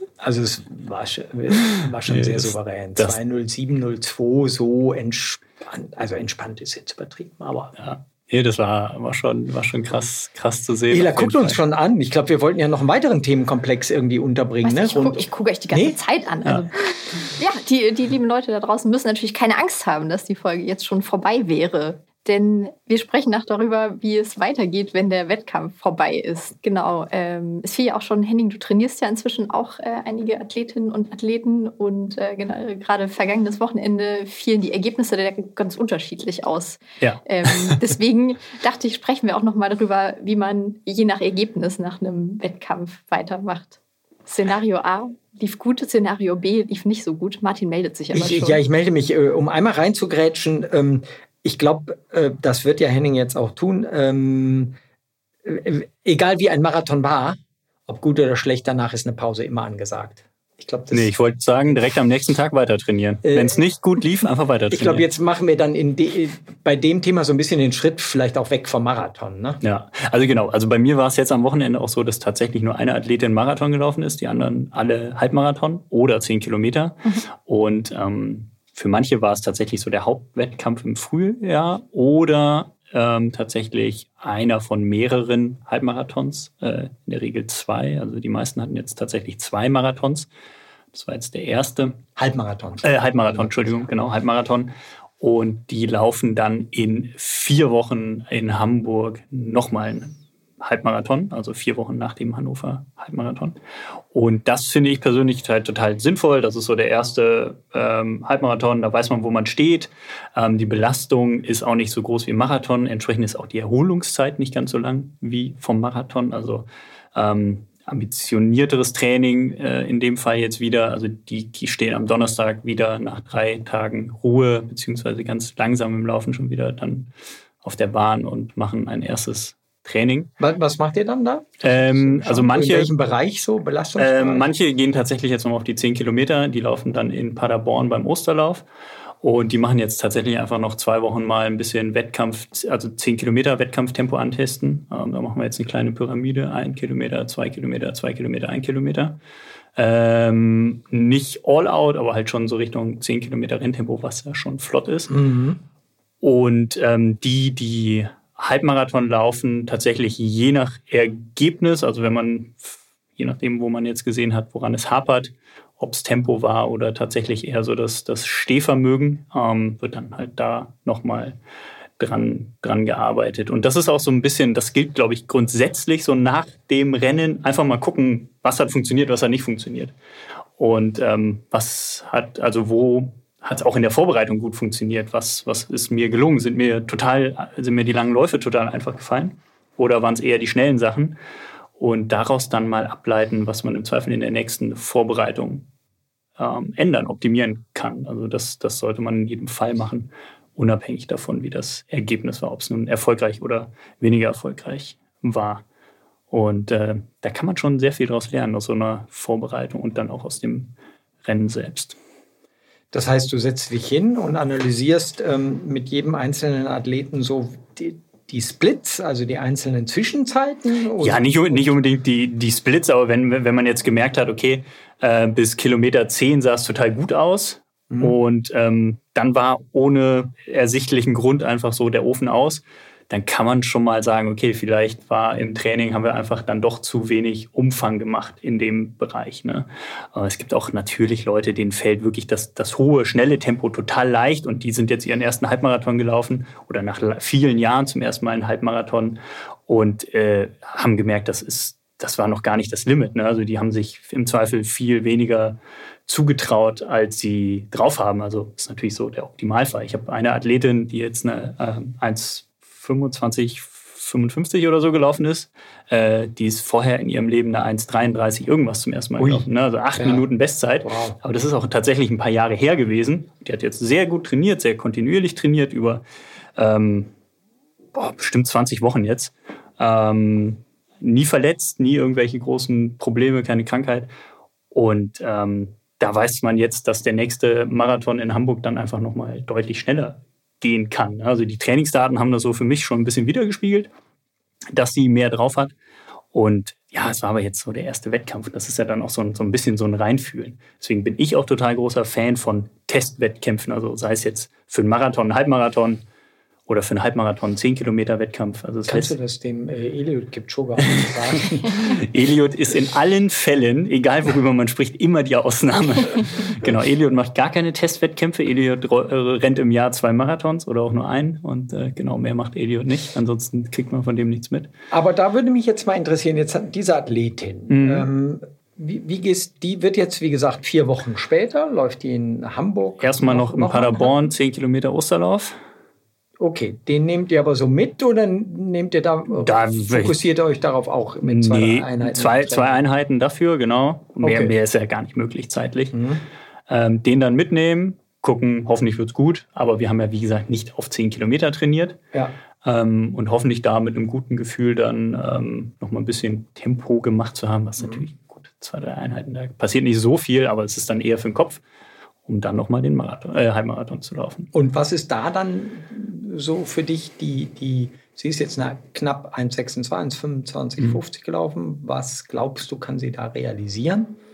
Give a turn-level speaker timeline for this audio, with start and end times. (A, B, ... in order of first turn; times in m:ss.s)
0:00.2-0:07.7 A
0:01.7-0:03.2 B
0:07.8-0:11.6 B
0:10.9-0:16.0 A
0:14.6-0:48.6 C
0:37.0-0:37.8 B
0:48.1-0:54.8 A
0:55.4-1:01.1 A
1:00.9-1:05.1 B
1:03.2-1:03.6 A
1:04.7-1:09.6 A
1:09.6-1:30.3 B
1:30.9-1:32.0 B
1:32.2-1:33.9 A
1:32.8-1:43.6 B
1:44.1-2:07.1 B
2:07.6-2:10.3 B
2:10.4-2:14.5 A
2:11.6-2:12.9 B
2:14.0-2:18.6 B
2:19.2-2:29.2 B
2:29.8-2:35.2 B
2:35.1-2:35.6 A
2:36.2-2:51.4 B
2:52.0-2:59.9 B
3:00.6-3:11.2 B
3:11.8-3:15.7 B
3:16.4-3:25.6 B
3:26.3-3:32.0 B
3:32.9-3:41.8 A
3:41.0-4:36.0 B
3:47.9-3:48.2 A
4:29.2-4:30.3 A
4:30.8-4:31.2 A
4:36.6-4:37.1 B
4:38.0-4:44.1 B
4:44.7-4:53.9 B
4:54.7-4:55.7 B
4:56.3-5:06.0 B
5:06.7-5:09.1 B
5:08.9-5:12.0 A
5:10.8-5:24.7 B
5:24.9-5:34.3 A
5:27.7-5:28.1 B
5:33.0-5:35.6 B
5:36.4-5:42.8 A
5:39.4-5:40.2 B
5:41.2-5:46.0 B
5:44.2-5:44.6 A
5:45.9-5:46.2 A
5:46.7-5:52.0 B
5:52.6-6:01.6 B
5:57.8-5:58.0 A
6:02.3-6:04.5 B
6:04.5-6:14.2 A